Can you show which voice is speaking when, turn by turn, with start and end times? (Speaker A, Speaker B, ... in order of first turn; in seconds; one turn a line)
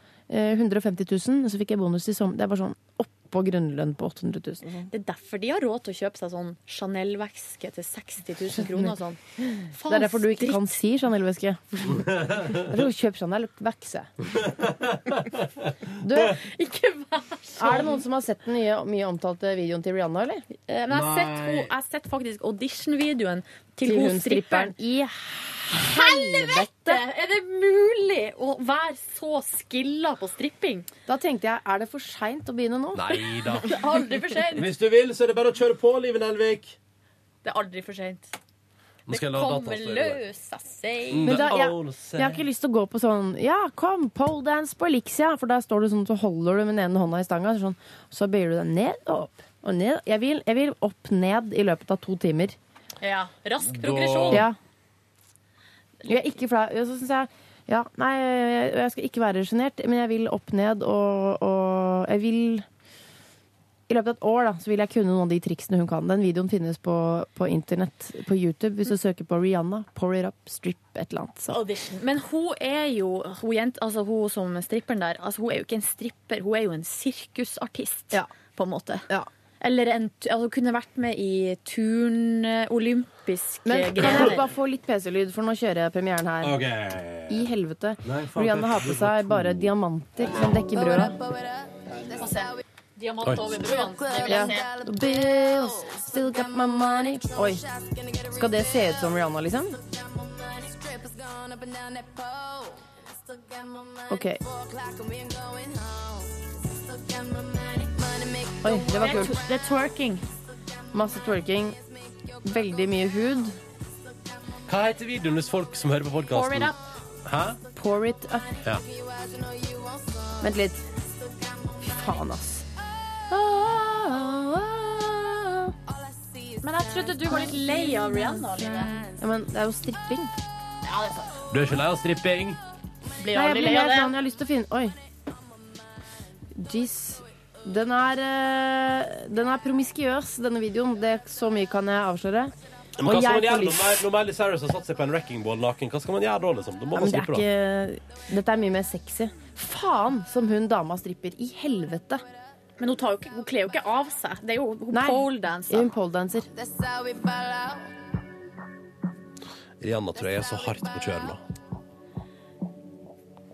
Speaker A: 0.3-4.9
Speaker B: 4.9-9.2
Speaker A: 8.6-8.9
Speaker A: 9.6-14.1
Speaker B: 9.7-10.7
Speaker C: 12.0-12.6
Speaker C: 14.4-15.5
Speaker A: 16.0-16.4
Speaker B: 16.4-18.0
Speaker A: 17.6-20.4
Speaker B: 20.7-24.7
Speaker C: 20.9-21.7
Speaker A: 23.9-27.0
Speaker B: 25.8-30.9
Speaker A: 31.1-33.0
Speaker C: 33.0-33.8
Speaker B: 33.5-34.7
Speaker C: 34.5-36.8
Speaker B: 37.4-38.3
Speaker C: 39.1-40.2
Speaker B: 39.1-41.5
Speaker C: 41.1-42.4
Speaker A: 41.2-52.6
Speaker B: 53.0-54.5
Speaker C: 53.7-54.5
Speaker A: 54.3-54.6
Speaker A: 56.0-62.6
Speaker A: 63.9-71.6
Speaker B: 71.5-79.1
Speaker B: 79.6-84.5
Speaker A: 83.7-86.6
Speaker C: 86.4-87.5
Speaker A: 87.3-91.2
Speaker C: 88.0-89.7
Speaker B: 92.1-94.7
Speaker A: 94.2-99.8
Speaker A: 104.1-104.4
Speaker A: 108.6-109.4
Speaker B: 109.0-110.2
Speaker A: 110.9-111.8
Speaker A: 112.3-113.6
Speaker C: 114.7-116.7
Speaker B: 116.3-116.8
Speaker C: 117.2-117.6
Speaker A: 117.7-118.6
Speaker A: 120.4-120.9
Speaker A: 121.8-122.7
Speaker A: 123.3-125.8
Speaker B: 126.6-129.1
Speaker A: 127.3-130.3
Speaker B: 130.8-131.4
Speaker C: 131.5-132.6
Speaker B: 133.2-134.1
Speaker A: 133.3-135.0
Speaker A: 136.6-142.5
Speaker C: 143.0-147.4
Speaker A: 143.0-144.1
Speaker A: 146.9-152.2
Speaker B: 152.8-155.9
Speaker A: 154.9-156.5
Speaker C: 159.8-161.4